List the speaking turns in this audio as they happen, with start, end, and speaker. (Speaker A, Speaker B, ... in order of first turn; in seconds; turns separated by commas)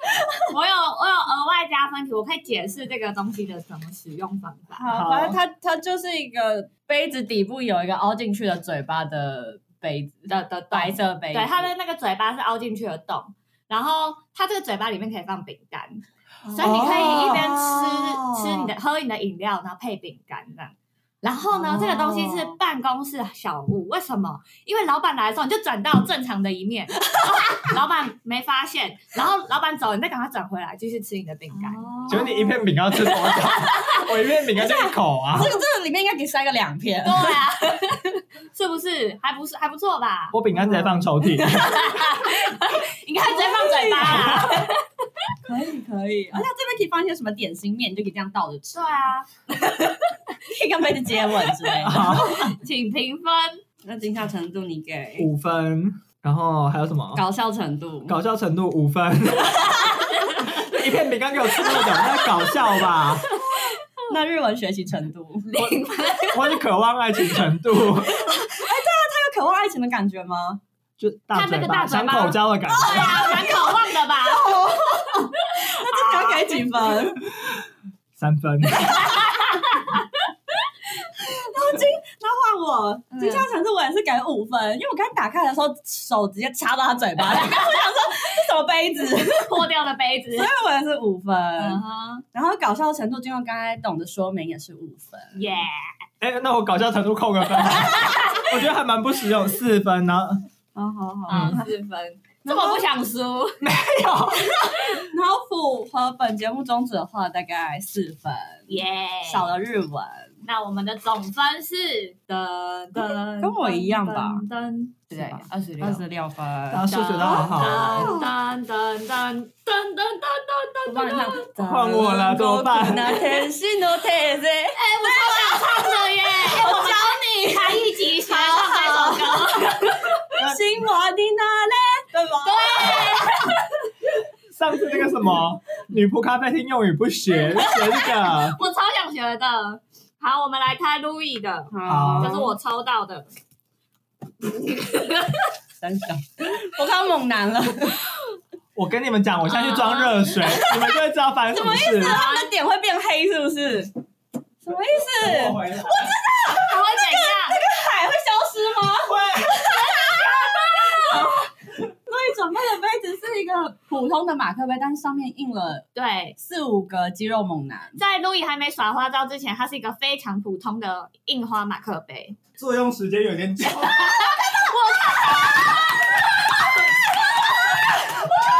Speaker A: 0.5-4.8, Speaker B: 4.8-11.7, Speaker C: 4.9-5.4, Speaker A: 10.3-32.3, Speaker B: 16.4-18.7, Speaker C: 16.6-17.5, Speaker B: 21.5-22.5, Speaker B: 27.0-27.7, Speaker B: 31.5-32.6, Speaker C: 32.1-35.5, Speaker A: 33.1-34.0, Speaker B: 33.1-37.4, Speaker A: 37.0-40.4, Speaker C: 40.3-41.7, Speaker B: 40.5-42.6, Speaker A: 41.4-44.9, Speaker B: 43.2-44.6, Speaker B: 45.4-48.9, Speaker A: 48.7-50.2, Speaker B: 50.4-52.4, Speaker A: 51.6-53.6, Speaker C: 51.8-52.5, Speaker B: 53.8-55.3, Speaker C: 55.2-57.2, Speaker B: 57.1-58.2, Speaker C: 58.1-63.3, Speaker A: 60.2-60.5, Speaker A: 61.6-63.8, Speaker B: 63.5-65.5, Speaker A: 65.5-66.6, Speaker C: 66.3-68.2, Speaker A: 67.9-68.6, Speaker B: 68.5-70.6, Speaker C: 71.0-73.5, Speaker A: 71.3-76.6, Speaker B: 72.7-73.7, Speaker B: 74.3-77.2, Speaker C: 77.4-77.6, Speaker C: 78.2-79.1, Speaker B: 78.8-79.7, Speaker A: 79.1-79.8, Speaker B: 81.0-89.6, Speaker A: 83.1-83.5, Speaker A: 87.3-87.9, Speaker A: 89.1-90.5, Speaker B: 90.3-91.8, Speaker A: 91.6-92.2, Speaker B: 92.3-95.4, Speaker A: 95.3-95.9, Speaker C: 96.2-100.4, Speaker A: 97.8-98.5, Speaker B: 100.7-101.7, Speaker A: 101.3-103.6, Speaker C: 101.3-101.6, Speaker B: 102.5-102.8, Speaker C: 103.6-104.7, Speaker B: 104.7-110.3, Speaker A: 108.7-109.5, Speaker A: 110.4-116.0, Speaker B: 113.0-114.4, Speaker B: 115.1-116.9, Speaker C: 116.7-118.1, Speaker A: 116.9-121.5, Speaker B: 117.8-118.3, Speaker B: 120.8-133.5, Speaker C: 121.6-123.2, Speaker A: 124.7-130.3, Speaker C: 130.4-130.6, Speaker A: 132.3-133.8, Speaker C: 134.5-138.6, Speaker A: 137.6-143.3, Speaker B: 141.7-142.5, Speaker C: 141.9-142.4, Speaker A: 144.4-145.5, Speaker B: 145.8-148.1, Speaker C: 148.7-152.2, Speaker A: 149.4-150.3, Speaker B: 150.4-151.0, Speaker B: 151.5-153.9, Speaker A: 152.0-152.5, Speaker B: 154.6-161.5, Speaker C: 155.1-156.1, Speaker A: 156.5-157.6, Speaker C: 159.0-159.7, Speaker A: 159.8-161.4, Speaker B: 162.1-168.0, Speaker A: 165.9-166.3, Speaker A: 168.0-172.4, Speaker C: 172.6-174.6, Speaker A: 173.8-177.8